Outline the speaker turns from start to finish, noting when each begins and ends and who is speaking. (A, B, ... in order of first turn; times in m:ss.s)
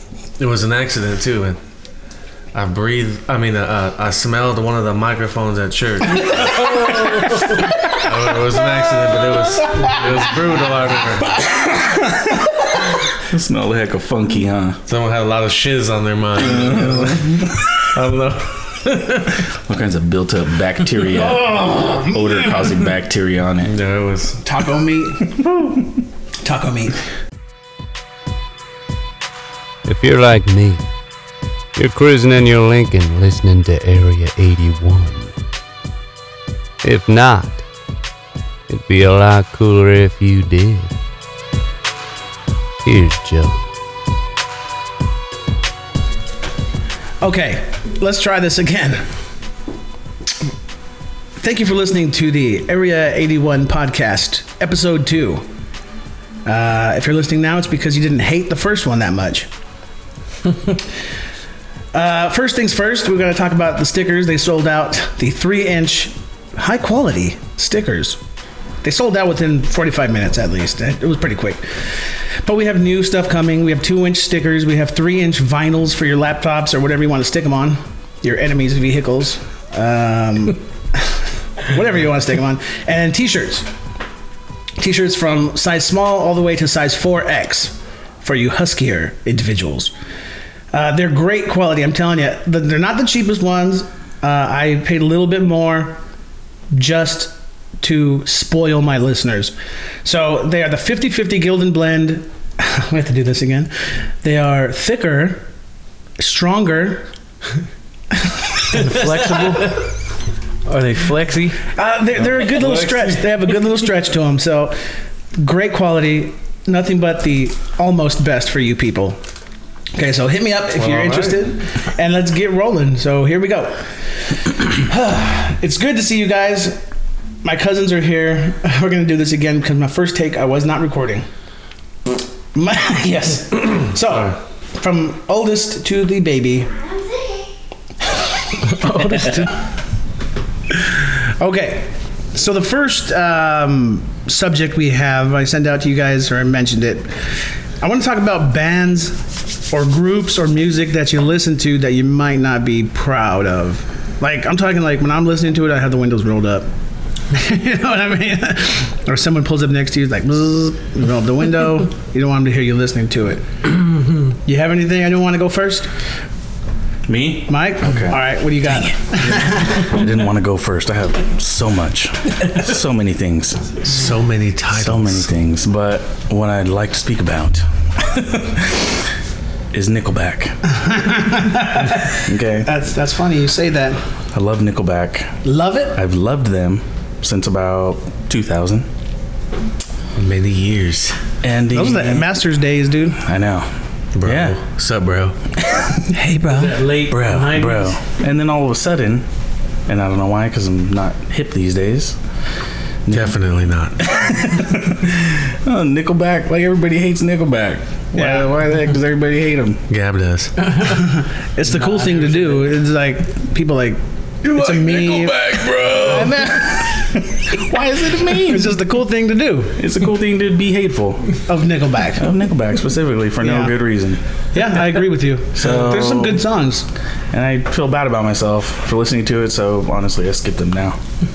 0:00.4-0:01.6 A
0:02.5-0:06.8 A
0:06.9-0:07.2 B
0:07.8-0:11.4 A
0:11.4-0:12.6 C
0:13.2-0:14.8 C
0:14.8-0:19.3 A
0:16.4-0:17.6 C
0:19.5-0:23.7 C
0:21.1-0:22.4 D
0:23.6-0:24.4 A
0:24.4-0:25.4 D
0:25.4-0:25.7 C
0:26.4-0:27.0 D
0:29.8-0:30.8 E
0:31.8-0:35.3 E
0:36.8-0:37.6 E
0:38.7-0:40.9 E
0:42.8-0:43.6 E
0:47.2-0:49.0 D
0:51.4-0:55.4 D
0:56.4-0:59.5 D
1:01.9-1:08.2 D
1:08.8-1:11.8 D
1:12.4-1:23.7 D
1:24.8-1:29.9 D
1:30.7-1:36.0 D
1:36.7-1:39.5 D
1:40.0-1:43.7 D
1:44.2-1:45.4 D
1:46.2-1:47.0 D
1:48.1-1:49.4 D
1:48.7-1:49.9 B
1:50.6-1:51.6 B
1:51.7-1:54.8 D
1:52.4-1:53.2 A
1:55.4-1:59.2 D
1:59.9-2:06.8 D
2:00.8-2:01.4 A
2:07.4-2:11.2 D
2:12.5-2:16.7 D
2:18.6-2:19.5 B
2:20.7-2:27.1 D
2:27.8-2:36.7 D
2:37.3-2:43.7 D
2:44.3-2:45.9 D
2:47.1-2:53.9 C
2:47.5-2:49.8 D
2:53.8-2:55.3 A
2:54.7-2:59.0 C
2:59.7-3:00.6 C
3:00.7-3:04.0 D
3:02.2-3:02.7 C
3:04.3-3:05.3 C
3:05.4-3:06.0 D
3:05.9-3:08.9 C
3:10.2-3:11.2 A
3:11.4-3:12.3 C
3:11.7-3:13.2 D
3:13.2-3:13.7 C
3:14.2-3:15.4 A
3:14.2-3:14.6 C
3:16.1-3:16.8 D
3:16.5-3:18.0 B
3:17.1-3:19.2 C
3:19.9-3:22.2 C
3:23.0-3:23.4 C
3:23.1-3:24.4 A
3:24.0-3:29.8 C
3:28.2-3:28.5 D
3:29.9-3:30.7 A
3:30.9-3:37.2 D
3:31.7-3:32.6 B
3:34.6-3:38.8 C
3:35.2-3:36.1 A
3:38.3-3:39.7 D
3:39.8-3:41.4 C
3:41.5-3:42.2 D
3:42.2-3:44.2 C
3:43.4-3:43.7 D
3:44.5-3:46.8 D
3:45.5-3:46.4 C
3:47.3-3:51.0 C